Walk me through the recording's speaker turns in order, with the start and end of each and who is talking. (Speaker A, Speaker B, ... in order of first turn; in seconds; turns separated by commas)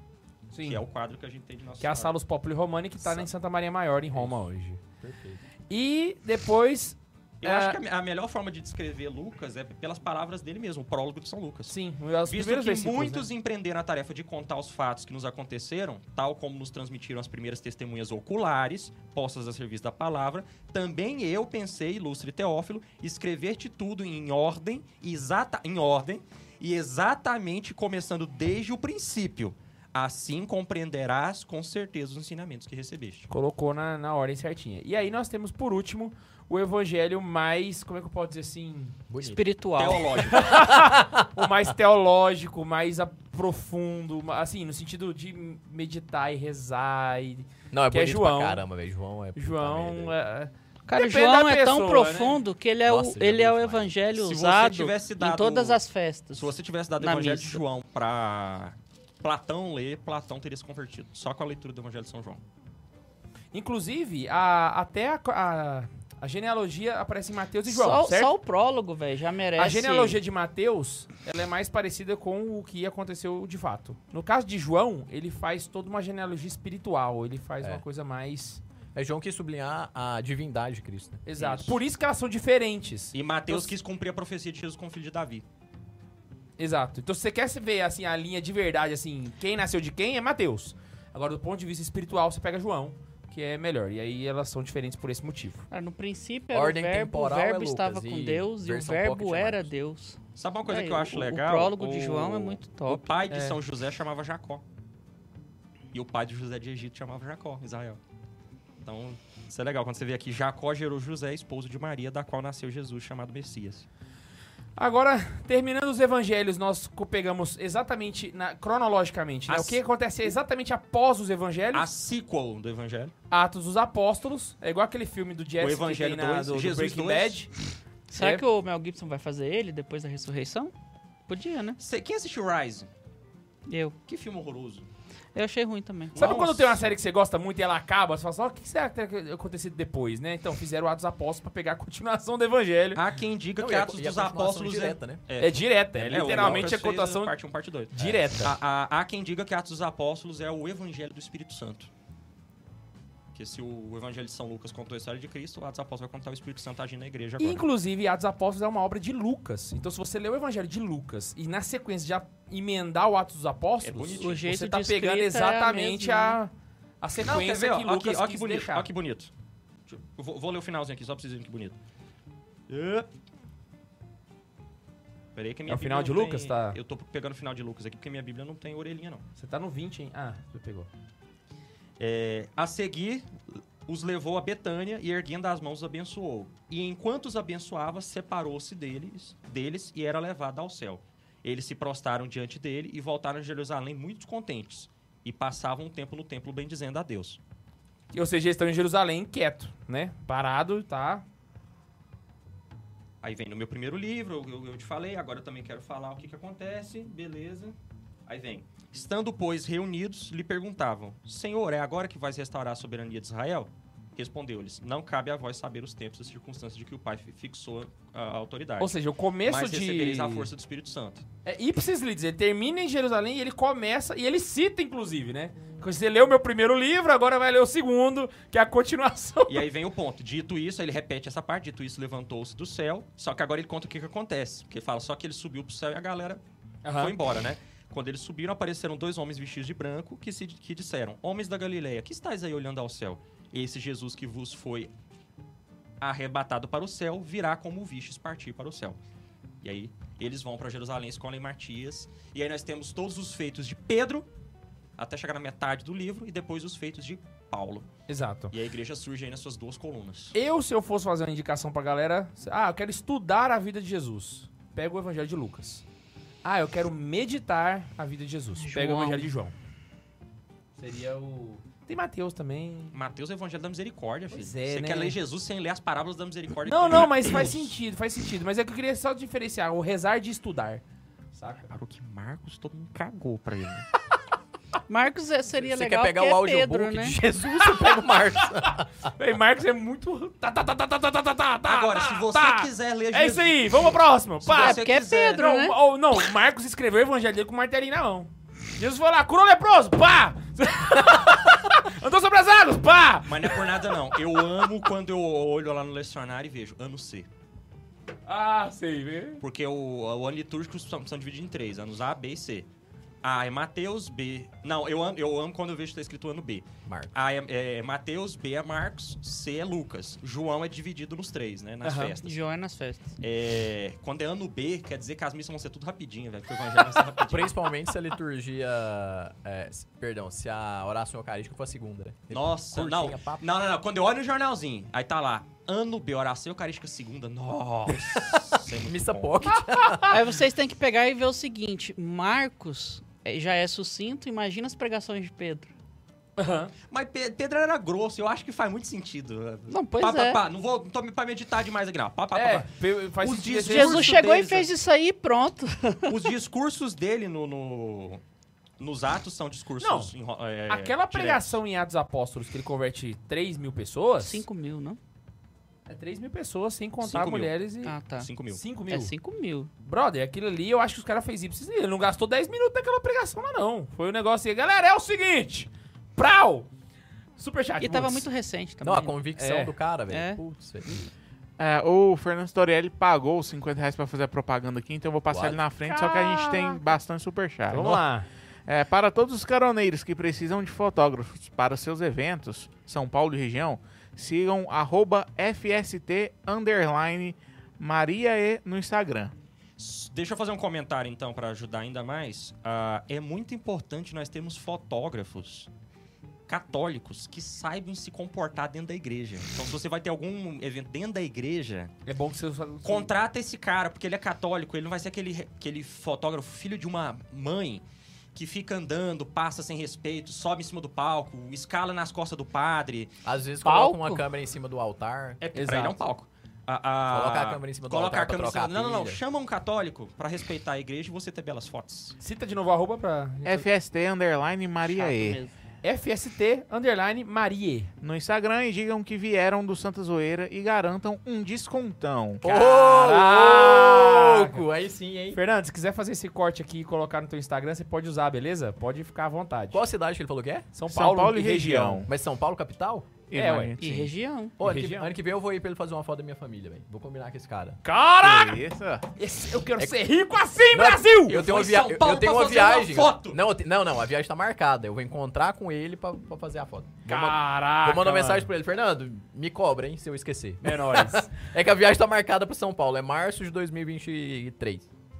Speaker A: 0.5-0.8, Speaker B: 0.7-2.2, Speaker A: 1.8-4.8, Speaker C: 5.0-5.4, Speaker A: 5.7-7.8, Speaker B: 7.4-11.8, Speaker A: 11.7-13.3, Speaker B: 12.3-33.3, Speaker A: 33.3-39.0, Speaker C: 39.1-39.4, Speaker D: 39.2-40.3, Speaker B: 39.8-40.6, Speaker A: 40.3-48.6, Speaker C: 40.5-41.3, Speaker C: 47.7-50.1, Speaker A: 49.4-52.4, Speaker D: 50.9-57.6, Speaker C: 52.9-54.0, Speaker B: 54.1-55.8, Speaker B: 56.3-62.4, Speaker A: 63.5-68.3, Speaker D: 67.7-70.2, Speaker A: 69.6-78.6, Speaker C: 79.0-81.2, Speaker A: 81.3-83.7, Speaker B: 81.4-81.8, Speaker B: 83.1-85.4, Speaker A: 86.6-95.7, Speaker D: 95.7-103.2, Speaker C: 96.5-99.7, Speaker B: 100.4-104.6, Speaker A: 103.3-103.6, Speaker B: 105.9-108.0, Speaker B: 108.8-113.9, Speaker A: 114.8-121.9, Speaker B: 119.5-119.8, Speaker B: 121.7-123.1, Speaker A: 123.3-127.5, Speaker B: 125.6-127.4, Speaker D: 128.1-130.7, Speaker A: 128.1-128.4, Speaker D: 131.3-131.8, Speaker B: 131.8-132.9, Speaker D: 133.7-134.0, Speaker B: 134.1-134.9, Speaker D: 135.3-136.3, Speaker B: 136.1-136.8, Speaker A: 136.2-143.0, Speaker B: 142.9-151.9, Speaker C: 143.6-145.2, Speaker A: 145.4-147.3, Speaker C: 146.0-146.7, Speaker A: 147.9-148.6, Speaker B: 153.3-157.6, Speaker A: 157.4-168.9, Speaker B: 163.8-164.5, Speaker D: 164.2-166.4, Speaker B: 167.2-169.3, Speaker B: 169.9-171.8, Speaker B: 172.7-173.1, Speaker B: 175.3-179.2, Speaker A: 175.7-176.8, Speaker A: 179.4-180.9, Speaker B: 182.0-183.3, Speaker B: 183.9-197.4, Speaker A: 198.1-201.2, Speaker B: 203.2-207.8, Speaker B: 208.3-218.9, Speaker A: 218.8-220.5, Speaker B: 219.5-221.2, Speaker A: 221.4-229.7, Speaker B: 229.5-236.4, Speaker A: 236.8-237.2, Speaker B: 236.9-244.9, Speaker B: 246.0-249.0, Speaker B: 249.6-254.3, Speaker B: 255.0-257.9, Speaker A: 258.1-258.6, Speaker B: 258.5-260.4, Speaker A: 260.3-265.9, Speaker A: 266.4-269.5, Speaker D: 268.6-269.3, Speaker A: 270.8-273.0, Speaker B: 272.9-277.7, Speaker A: 274.3-275.2, Speaker A: 276.7-280.8, Speaker A: 281.3-281.7, Speaker B: 281.7-283.9, Speaker D: 284.9-287.2, Speaker C: 285.6-288.9, Speaker A: 287.7-304.2, Speaker B: 291.6-295.4, Speaker D: 294.5-295.8, Speaker B: 303.2-307.3, Speaker A: 308.3-309.4, Speaker B: 309.4-312.7, Speaker B: 313.2-322.4, Speaker C: 316.9-317.1, Speaker A: 321.8-322.1, Speaker D: 322.2-323.2, Speaker B: 323.2-327.5, Speaker C: 327.3-333.5, Speaker B: 332.3-339.4, Speaker C: 337.9-340.3, Speaker A: 339.5-340.1, Speaker D: 340.1-345.7, Speaker A: 346.4-346.7, Speaker B: 346.9-354.7, Speaker D: 349.7-350.4, Speaker A: 352.3-354.2, Speaker D: 353.6-356.3, Speaker B: 356.1-358.2, Speaker B: 358.8-361.6, Speaker A: 359.8-360.1, Speaker A: 360.7-364.4, Speaker D: 364.2-365.0, Speaker A: 365.9-368.0, Speaker B: 367.0-367.6, Speaker D: 367.8-368.3, Speaker B: 368.2-368.6, Speaker A: 368.5-369.1, Speaker D: 368.9-369.7, Speaker A: 369.9-376.7, Speaker A: 377.4-378.3, Speaker D: 377.8-379.2, Speaker C: 378.8-381.1, Speaker A: 379.4-379.7, Speaker D: 380.1-380.4, Speaker E: 381.6-388.0, Speaker C: 385.3-385.7, Speaker A: 385.9-386.7, Speaker A: 387.7-388.3, Speaker E: 388.7-399.3, Speaker B: 399.8-405.7, Speaker B: 406.5-411.9, Speaker A: 412.1-413.1, Speaker B: 412.8-417.8, Speaker B: 418.4-423.1, Speaker C: 423.2-425.4, Speaker A: 423.7-424.1, Speaker B: 425.4-432.2, Speaker A: 425.6-426.0, Speaker C: 427.1-429.2, Speaker A: 432.2-433.7, Speaker E: 433.4-435.4, Speaker D: 434.8-435.5, Speaker A: 435.8-437.9, Speaker E: 438.0-442.4, Speaker A: 442.4-444.6, Speaker C: 442.4-445.4, Speaker A: 445.3-449.8, Speaker C: 449.7-450.7, Speaker A: 450.7-452.1, Speaker E: 450.9-452.1, Speaker C: 452.1-453.1, Speaker E: 453.3-454.1, Speaker A: 453.3-453.8, Speaker D: 453.8-454.6, Speaker C: 454.6-457.8, Speaker A: 454.6-455.1, Speaker A: 457.8-458.6, Speaker E: 458.2-459.1, Speaker A: 459.2-461.4, Speaker C: 460.7-474.9, Speaker B: 461.3-463.4, Speaker A: 467.1-468.5, Speaker A: 470.6-471.3